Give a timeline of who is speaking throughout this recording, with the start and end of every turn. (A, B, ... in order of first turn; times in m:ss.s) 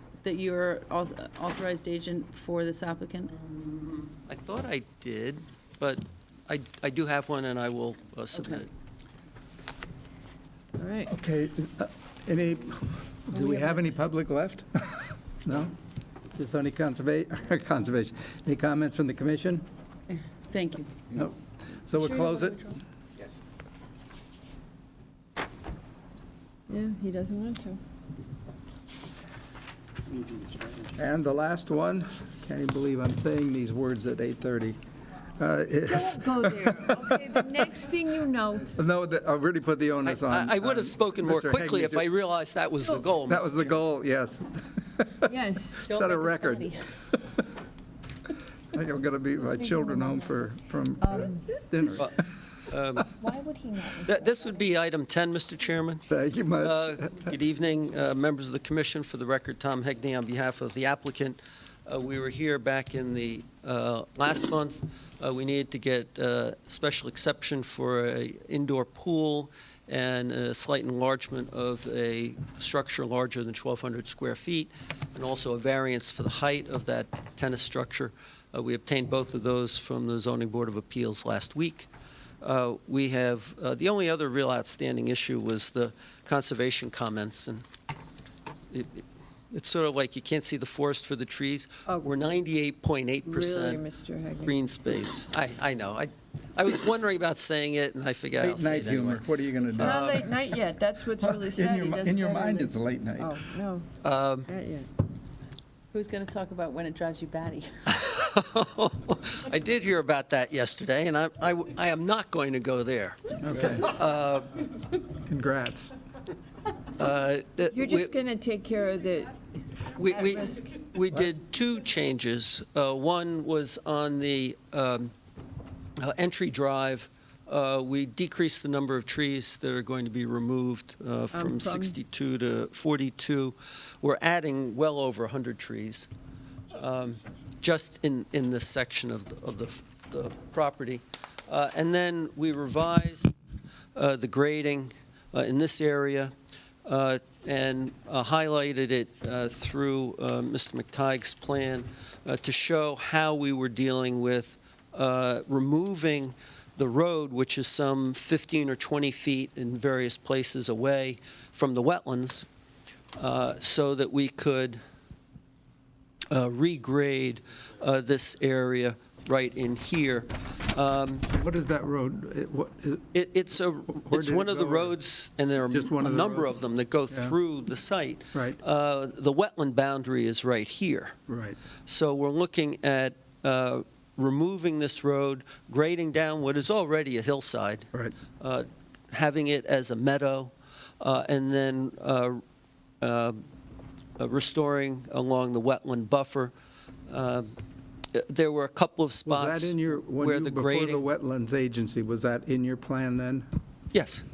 0:00.2-0:03.4 A
0:03.7-0:08.7 B
0:08.3-0:08.6 A
0:10.8-0:11.1 C
0:11.1-0:15.7 D
0:13.3-0:13.9 A
0:16.4-0:19.6 D
0:20.1-0:20.9 A
0:21.1-0:22.6 D
0:21.9-0:22.8 A
0:26.7-0:27.8 C
0:30.9-0:34.8 D
0:35.4-0:37.3 D
0:35.8-0:38.7 C
0:38.7-0:42.0 D
0:40.0-0:43.8 B
0:43.2-0:45.3 D
0:45.3-0:45.9 C
0:45.8-0:46.8 A
0:45.9-0:47.3 D
0:48.7-0:52.2 D
0:49.4-0:50.5 C
0:51.0-0:51.5 C
0:52.7-0:53.2 B
0:53.1-0:54.6 C
0:54.0-0:56.0 B
0:56.1-0:57.2 D
0:56.6-1:21.9 B
1:22.4-1:27.6 B
1:28.7-1:33.8 B
1:33.3-1:34.6 C
1:34.4-1:40.3 B
1:38.4-1:40.3 D
1:39.7-1:43.9 C
1:41.2-1:43.4 D
1:44.0-1:44.5 B
1:44.4-1:44.9 C
1:45.9-1:47.9 A
1:47.9-1:54.6 B
1:53.4-1:53.9 D
1:55.2-1:55.9 D
1:57.0-1:58.1 B
1:57.7-1:59.3 C
1:59.9-2:05.1 B
2:00.1-2:00.6 C
2:06.0-2:16.1 B
2:11.3-2:11.9 C
2:16.7-2:23.3 B
2:24.0-2:26.3 B
2:26.8-2:42.4 B
2:43.2-2:44.8 B
2:46.3-2:51.2 B
2:51.3-2:53.0 D
2:53.1-3:01.2 B
2:54.0-2:55.0 D
2:55.7-2:56.6 D
2:57.1-2:57.4 D
2:58.3-2:58.6 D
3:01.3-3:01.6 D
3:01.9-3:12.4 B
3:13.0-3:13.4 B
3:14.2-3:16.5 B
3:17.1-3:17.5 B
3:18.1-3:21.0 B
3:19.2-3:23.5 D
3:23.9-3:24.2 B